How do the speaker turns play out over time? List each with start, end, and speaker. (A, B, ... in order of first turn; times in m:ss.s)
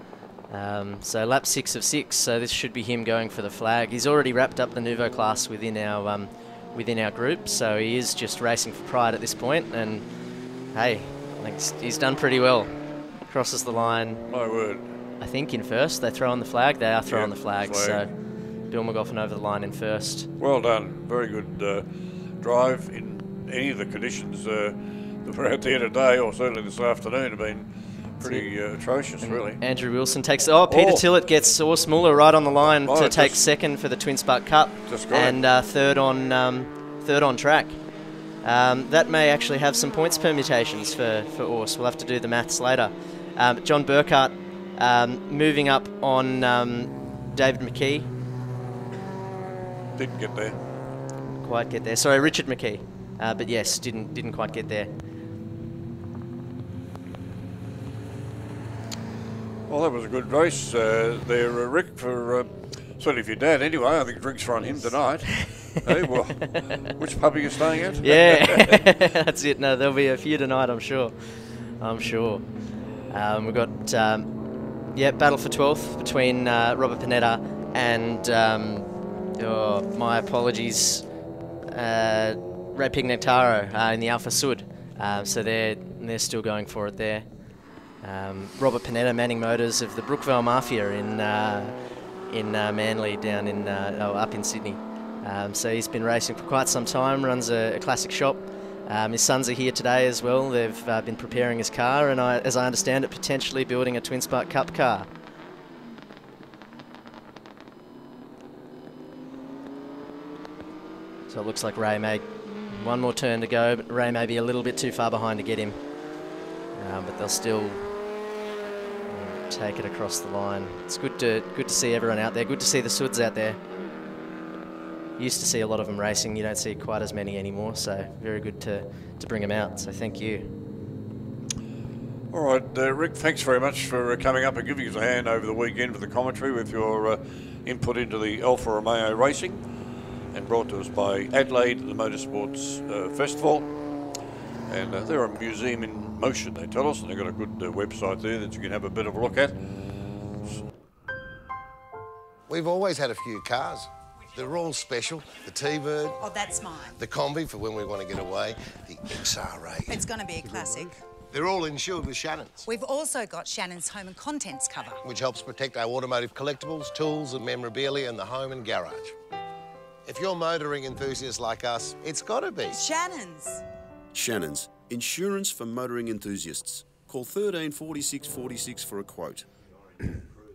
0:00.5-0:10.1 A
0:10.7-0:12.7 A
0:13.3-0:14.2 A
0:14.3-0:14.8 B
0:15.2-0:18.1 A
0:17.0-0:18.0 B
0:18.7-0:20.3 A
0:20.4-0:21.8 B
0:22.4-0:27.7 B
0:28.2-0:29.6 B
0:28.2-0:28.5 A
0:29.2-0:37.8 A
0:30.7-0:31.1 B
0:32.6-0:33.4 B
0:34.9-0:35.4 B
0:38.4-0:48.1 A
0:50.0-0:50.6 B
0:51.4-0:54.9 A
0:59.7-1:08.8 B
1:04.8-1:05.7 A
1:06.5-1:06.8 A
1:08.0-1:12.4 A
1:13.1-1:14.3 A
1:14.9-1:21.1 A
1:21.7-1:27.2 A
1:28.0-1:31.8 A
1:32.3-1:45.1 A
1:51.3-1:55.8 A
1:56.7-1:57.8 A
1:59.1-2:03.6 A
2:05.2-2:10.5 A
2:12.3-2:19.6 B
2:20.3-2:23.7 B
2:24.7-2:29.6 B
2:32.5-2:36.2 C
2:36.2-2:37.0 D
2:36.9-2:42.7 C
2:39.9-2:41.0 D
2:42.6-2:45.0 D
2:45.0-2:49.2 C
2:50.0-2:52.8 C
2:52.7-2:53.6 D
2:54.1-2:59.4 E